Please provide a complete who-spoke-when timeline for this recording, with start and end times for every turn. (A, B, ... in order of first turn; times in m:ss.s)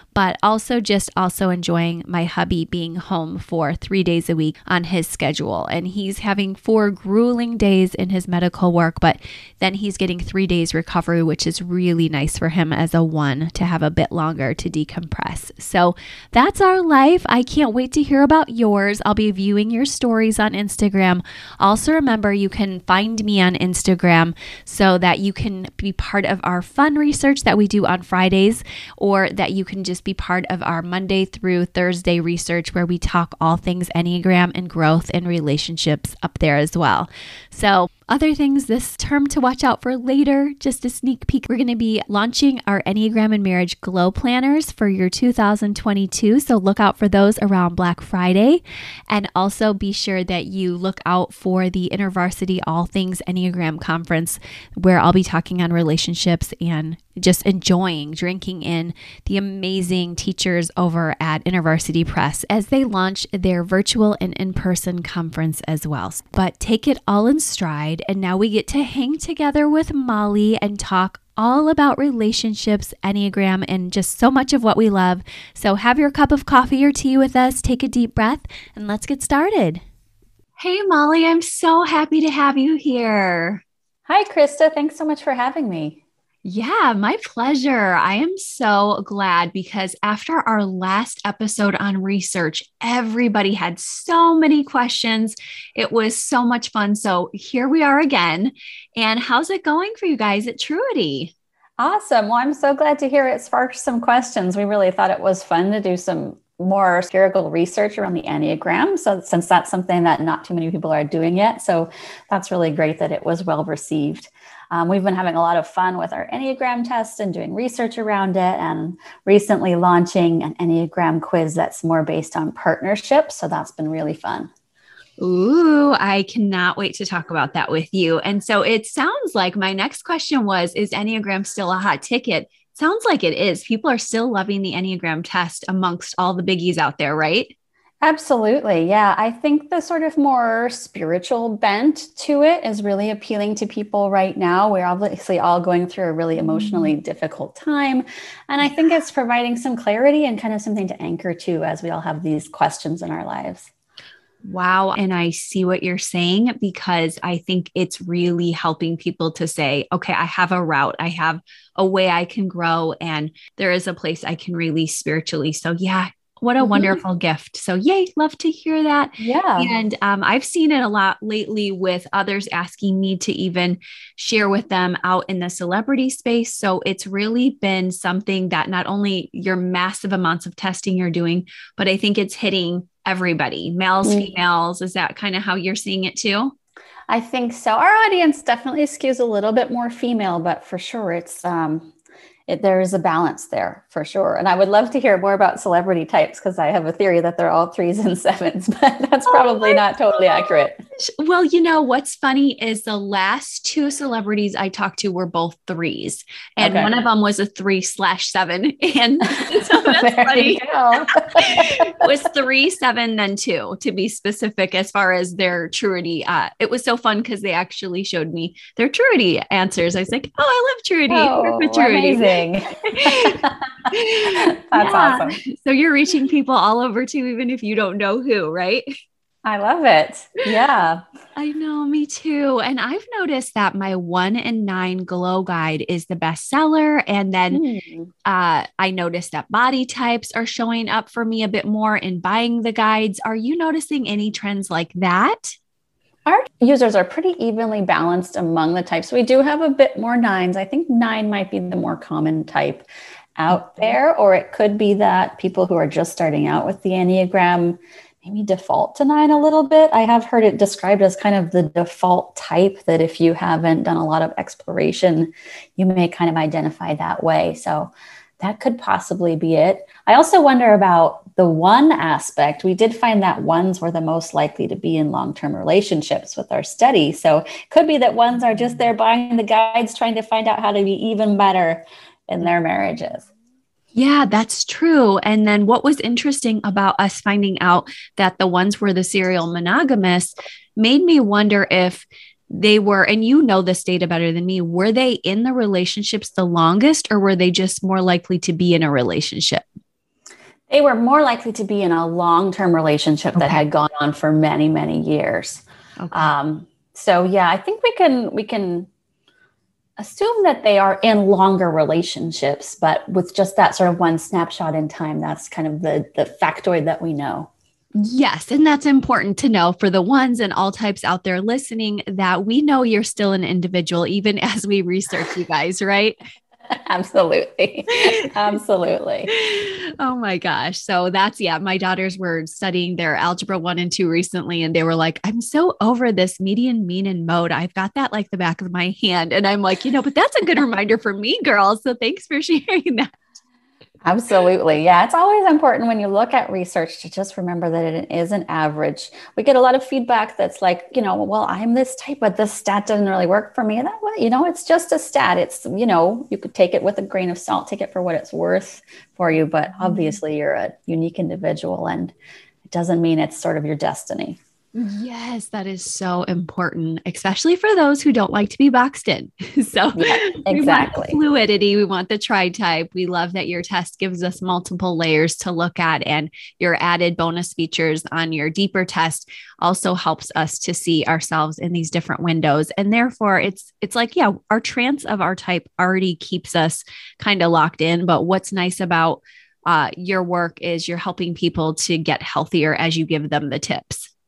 0:00.1-1:19.8 A
1:20.6-1:23.6 A
1:24.1-1:26.0 B
1:26.4-1:41.3 A
1:41.8-2:04.5 B
2:05.2-2:17.5 A
2:18.0-2:33.7 B
2:26.5-2:26.8 A
2:34.4-3:06.5 A
2:46.6-2:47.0 B
2:49.2-2:49.7 B
3:04.0-3:04.3 B
3:07.1-3:11.9 B
3:12.5-3:20.8 B
3:19.3-3:19.8 A
3:20.4-3:42.3 A
3:26.6-3:27.0 B
3:29.4-3:32.0 B
3:41.1-3:45.4 B
3:42.9-3:43.4 A
3:43.9-3:48.9 A
3:49.4-3:51.0 B
3:51.4-3:57.6 A
3:57.5-3:58.1 B
3:58.2-4:05.6 A
4:06.3-4:12.9 B
4:13.4-4:43.3 B
4:13.5-4:13.8 A
4:43.9-4:59.6 A
5:00.7-5:08.9 B
5:03.4-5:03.6 A
5:06.0-5:06.3 A
5:10.0-5:17.5 B
5:18.0-5:26.2 A
5:26.9-5:29.3 B
5:29.3-5:43.2 A
5:44.0-6:02.1 B
6:02.7-6:04.4 B
6:04.8-6:34.1 A
6:10.0-6:11.2 B